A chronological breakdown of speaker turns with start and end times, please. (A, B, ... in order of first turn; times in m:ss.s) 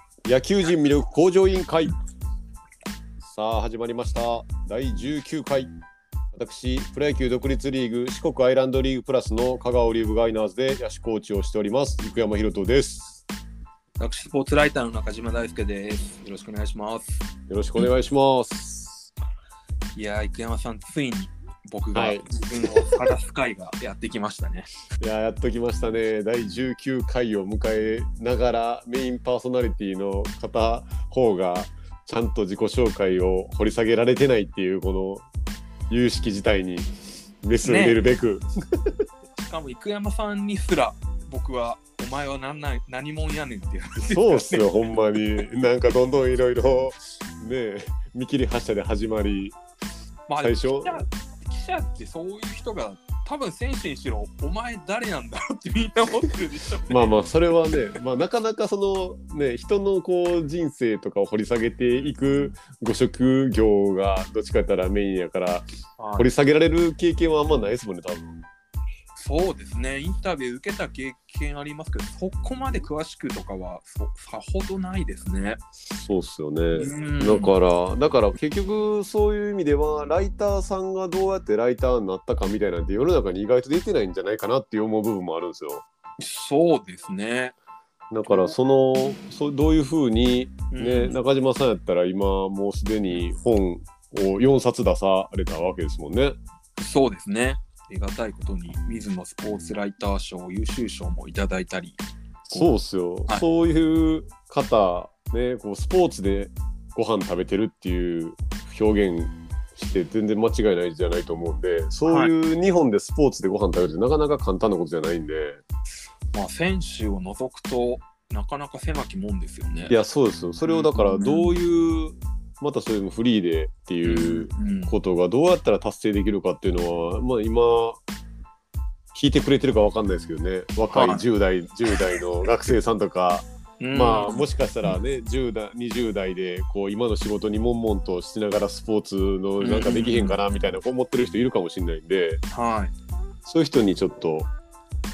0:00.2-0:02.0 A
0:03.2-0:05.7 A
0:06.3-0:13.2 A
0:14.0-0:17.9 B
0:17.5-0:19.1 A
0:20.0-0:24.7 B
0:22.0-0:23.0 A
0:25.0-0:35.3 A
0:35.9-0:38.4 A
0:37.6-0:38.0 B
0:39.4-0:44.7 B
0:44.0-0:49.6 A
0:50.3-0:57.1 B
0:50.4-0:51.0 A
0:56.9-1:08.4 A
1:01.9-1:02.6 B
1:06.0-1:06.3 B
1:09.2-1:15.6 B
1:15.9-1:25.8 A
1:16.8-1:17.6 B
1:26.2-1:27.6 B
1:28.1-1:36.4 A
1:28.3-1:28.6 B
1:30.7-1:31.2 B
1:36.8-1:42.7 B
1:42.5-1:55.6 A
1:52.1-1:52.3 B
1:56.3-2:00.0 B
1:59.9-2:08.0 A
2:00.7-2:01.5 B
2:04.0-2:05.0 B
2:09.1-2:22.4 A
2:10.9-2:11.2 B
2:13.8-2:14.9 B
2:19.6-2:20.4 B
2:22.5-2:22.9 B
2:23.5-2:24.5 A